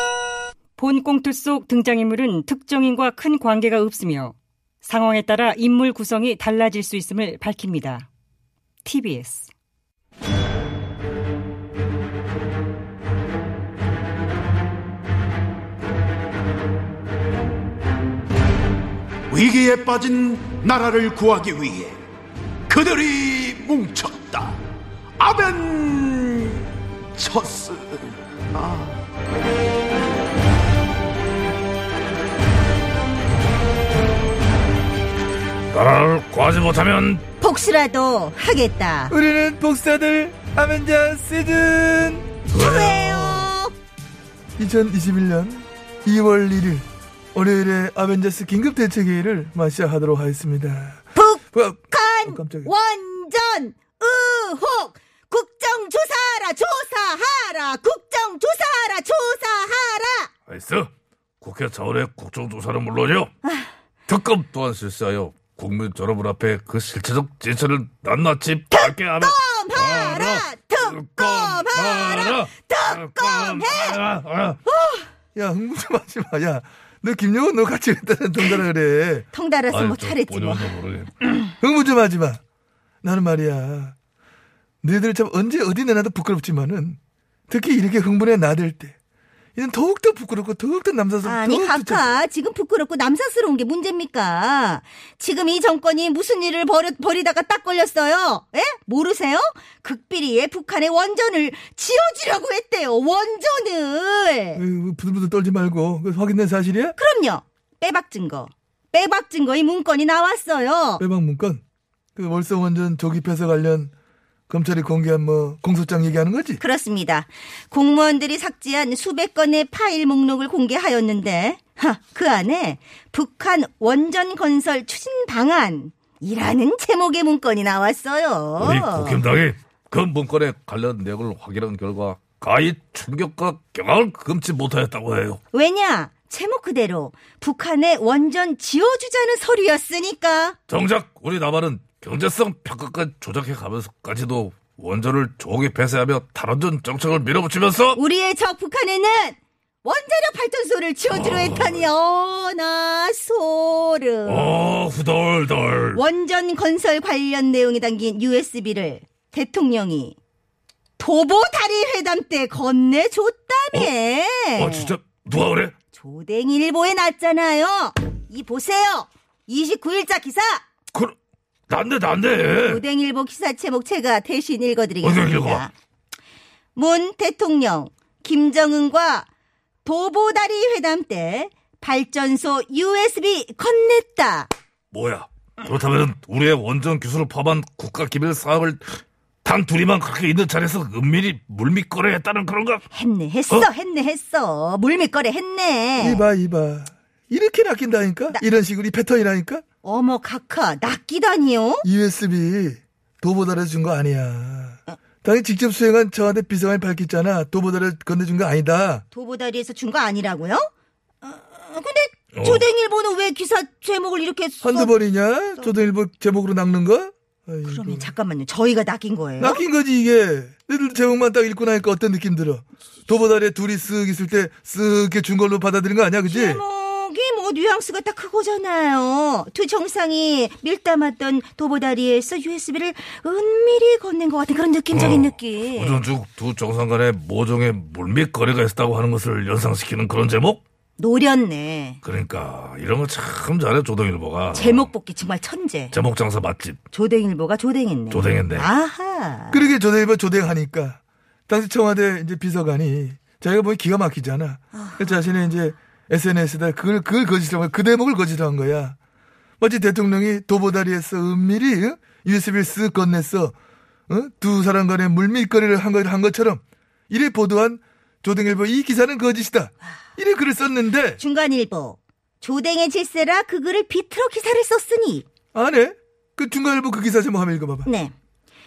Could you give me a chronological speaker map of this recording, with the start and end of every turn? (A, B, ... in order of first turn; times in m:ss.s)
0:00.8-0:08.1 A
0:08.8-0:09.5 A
0:19.3-0:22.0 B
0:22.7-0:24.6 B
0:25.2-0:26.6 B
0:27.1-0:28.0 B
0:28.6-0:28.9 B
0:35.7-0:37.2 C
0:37.4-0:39.1 D
0:39.1-0:42.4 E
0:42.5-0:43.7 D
0:42.5-0:43.2 C
0:43.0-0:43.5 E
0:44.6-0:52.7 E
0:51.1-1:00.3 D
1:00.5-1:00.9 C
1:01.4-1:03.3 C
1:03.4-1:03.7 D
1:04.1-1:14.6 C
1:08.7-1:14.0 D
1:14.6-1:15.1 D
1:15.3-1:19.2 E
1:19.3-1:20.7 D
1:19.7-1:21.4 C
1:21.6-1:22.4 E
1:23.0-1:23.9 E
1:24.8-1:27.0 E
1:27.5-1:28.9 E
1:29.6-1:32.1 E
1:31.2-1:44.6 D
1:44.5-1:47.0 E
1:47.0-1:51.0 D
1:51.0-1:51.6 E
1:52.2-1:53.9 E
1:54.5-1:56.6 E
1:56.6-2:09.2 D
2:08.6-2:15.4 C
2:15.5-2:20.6 D
2:20.7-2:28.0 C
2:27.9-2:34.5 D
2:31.1-2:31.9 C
2:34.2-2:36.0 C
2:35.9-2:40.2 D
2:41.0-2:44.9 D
2:44.5-2:45.7 C
2:45.9-2:50.6 D
2:51.7-2:52.8 C
2:52.6-2:55.7 D
2:55.0-2:55.6 C
2:56.7-2:59.3 D
2:59.8-3:04.5 D
3:04.9-3:12.8 C
3:12.9-3:16.2 D
3:16.0-3:19.6 E
3:19.8-3:21.8 D
3:21.8-3:29.0 E
3:29.1-3:30.7 D
3:31.2-3:34.9 D
3:32.3-3:32.6 C
3:34.6-3:38.1 E
3:37.6-3:39.6 D
3:39.4-3:46.6 E
3:46.2-3:56.0 D
3:54.9-4:00.6 C
4:01.0-4:02.0 D
4:02.0-4:04.9 C
4:04.5-4:06.0 D
4:05.9-4:06.8 C
4:06.9-4:09.7 D
4:08.1-4:08.7 C
4:09.5-4:19.0 E
4:14.7-4:15.2 D
4:19.6-4:23.5 E
4:24.1-4:31.2 E
4:31.2-4:35.2 D
4:35.5-4:37.9 E
4:37.8-4:38.1 D